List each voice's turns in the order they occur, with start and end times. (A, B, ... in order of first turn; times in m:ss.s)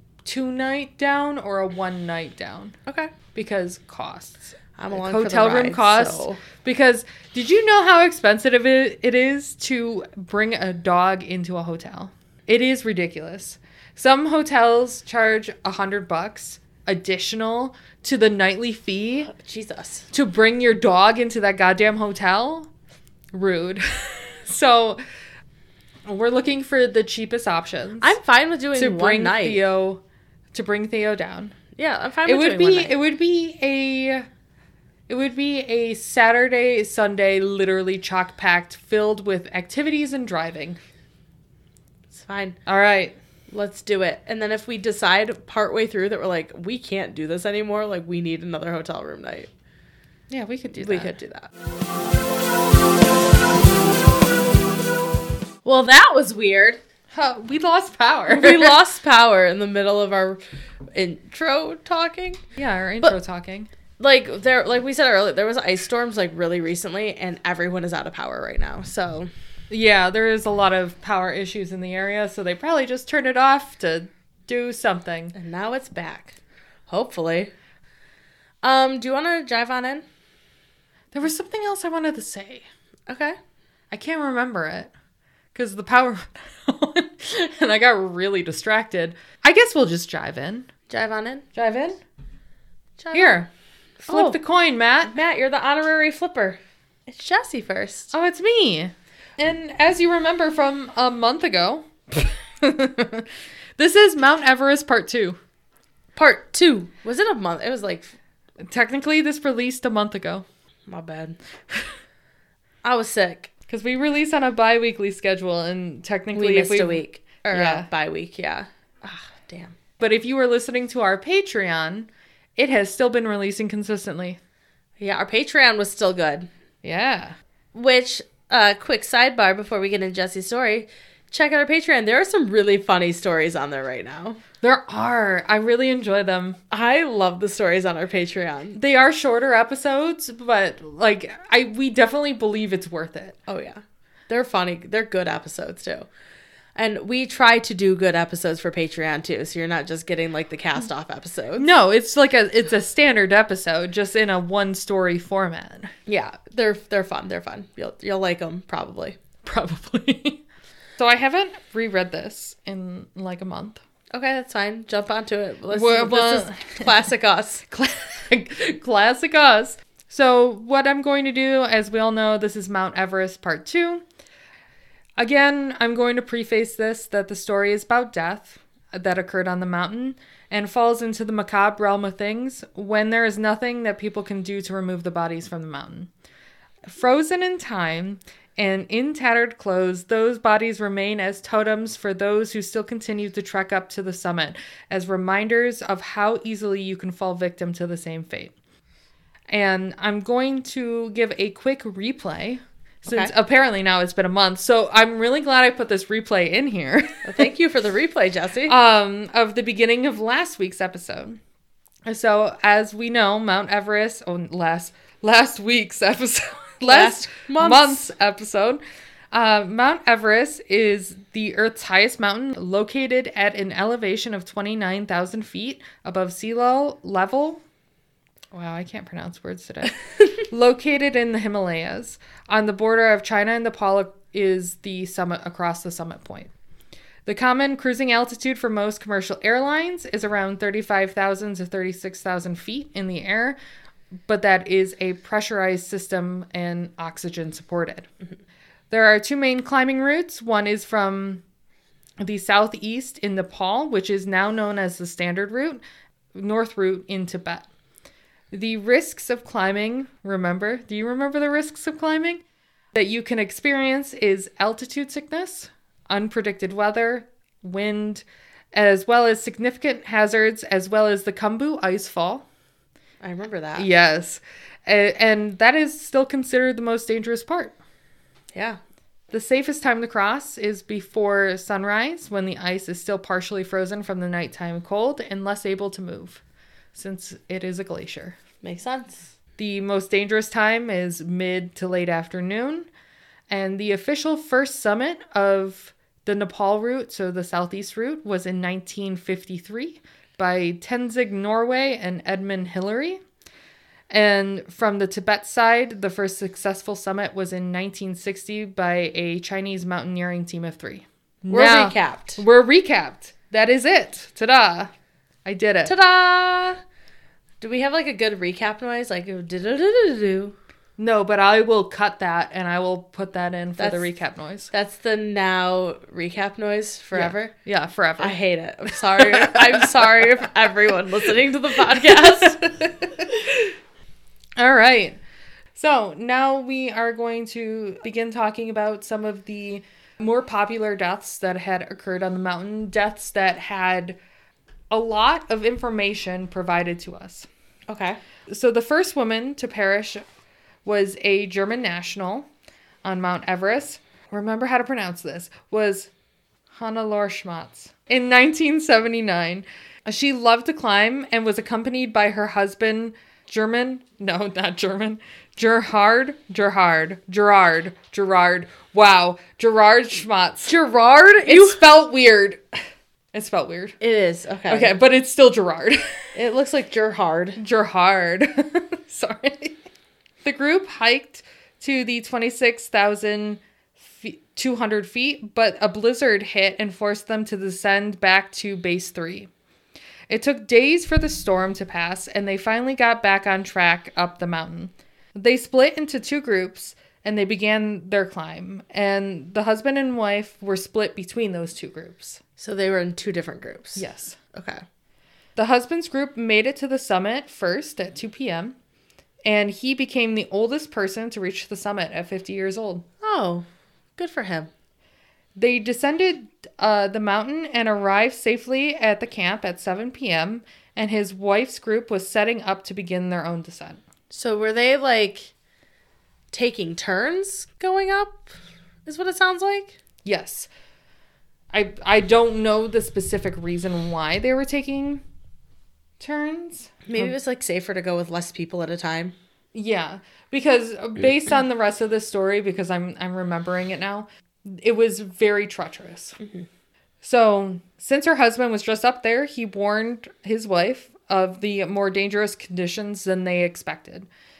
0:00.2-0:02.8 A
0:02.9-0:03.1 B
0:03.4-0:19.3 A
0:04.8-0:06.4 B
0:19.3-0:20.1 B
0:20.1-0:22.7 A
0:23.3-0:25.0 A
0:26.1-0:28.2 A
0:28.0-0:29.6 B
0:28.7-0:30.0 A
0:30.5-0:31.6 A
0:31.8-0:32.9 B
0:32.2-0:34.3 A
0:35.1-0:40.8 A
0:42.1-0:42.6 B
0:42.7-0:43.2 A
0:43.5-0:49.5 B
0:50.3-0:51.1 A
0:50.8-0:51.5 B
0:55.6-0:56.8 B
0:57.1-0:58.8 A
0:58.3-1:00.4 B
1:00.9-1:02.4 B
1:02.6-1:03.7 A
1:04.0-1:09.3 B
1:09.7-1:15.4 A
1:15.3-1:16.4 B
1:16.9-1:17.5 B
1:18.6-1:20.0 B
1:21.1-1:22.6 A
1:23.1-1:23.4 B
1:23.9-1:24.9 A
1:25.6-1:30.7 A
1:30.9-1:31.4 B
1:31.6-1:32.0 A
1:33.0-1:33.4 B
1:33.1-1:33.5 A
1:34.0-1:34.4 B
1:34.1-1:35.1 A
1:35.0-1:38.1 B
1:38.1-1:45.4 A
1:46.2-1:48.2 B
1:48.6-1:50.4 A
1:50.9-1:51.4 B
1:52.8-1:53.5 B
1:53.7-1:57.9 A
1:56.3-1:59.8 B
2:00.0-2:04.4 A
2:05.0-2:06.5 B
2:06.8-2:07.4 A
2:07.7-2:14.4 B
2:14.6-2:16.6 A
2:16.7-2:18.8 B
2:18.8-2:23.4 A
2:23.5-2:26.1 B
2:26.8-2:31.7 B
2:31.6-2:35.9 A
2:36.1-2:39.2 B
2:39.4-2:40.4 A
2:41.0-2:43.8 A
2:44.1-2:47.6 B
2:45.7-2:47.0 A
2:47.7-2:54.0 A
2:55.2-3:06.1 A
3:06.9-3:18.5 A
3:19.5-3:27.3 A
3:23.1-3:23.3 B
3:27.2-3:28.8 B
3:28.7-3:31.4 A
3:32.1-3:38.8 A
3:36.8-3:38.0 B
3:39.3-3:47.6 A
3:48.5-3:56.5 A
3:57.3-4:03.6 A
4:04.3-4:08.1 A
4:08.9-4:11.4 A
4:12.2-4:15.8 A
4:16.3-4:17.7 A
4:18.5-4:22.4 A
4:22.9-4:32.4 A
4:33.2-4:33.9 B
4:33.8-4:37.8 A
4:38.5-4:38.8 B
4:39.3-4:46.4 A
4:46.9-4:48.4 A
4:48.6-4:49.3 B
4:49.6-4:52.9 A
4:53.5-5:03.2 A
5:04.1-5:14.9 A
5:11.5-5:12.4 B
5:15.4-5:15.9 A
5:15.8-5:16.8 B
5:17.6-5:20.6 B
5:21.0-5:24.7 A
5:23.8-5:24.1 B
5:24.7-5:27.5 B
5:27.1-5:28.4 A
5:28.2-5:32.6 B
5:29.1-5:30.5 A
5:31.9-5:33.7 A
5:34.6-5:35.2 A
5:35.8-5:44.2 A
5:44.9-5:47.5 A
5:47.9-5:48.2 B
5:48.5-5:50.2 A
5:50.8-5:52.5 A
5:53.0-5:56.1 A
5:56.7-6:12.6 A
6:10.7-6:11.8 B
6:13.3-6:14.0 A
6:14.0-6:14.9 B
6:14.7-6:16.2 A
6:16.3-6:17.6 B
6:17.6-6:19.8 A
6:20.4-6:29.5 A
6:30.3-6:42.4 A
6:42.6-6:44.8 B
6:44.0-6:44.4 A
6:45.6-6:48.8 A
6:49.4-6:53.1 A
6:53.2-6:53.7 B
6:54.2-6:54.7 B
6:55.6-7:04.0 A
7:04.3-7:05.5 B
7:06.5-7:10.0 B
7:10.2-7:10.7 A
7:11.7-7:15.2 A
7:16.2-7:17.3 A
7:17.1-7:19.3 B
7:19.7-7:26.4 A
7:26.4-7:26.7 B
7:27.2-7:34.3 A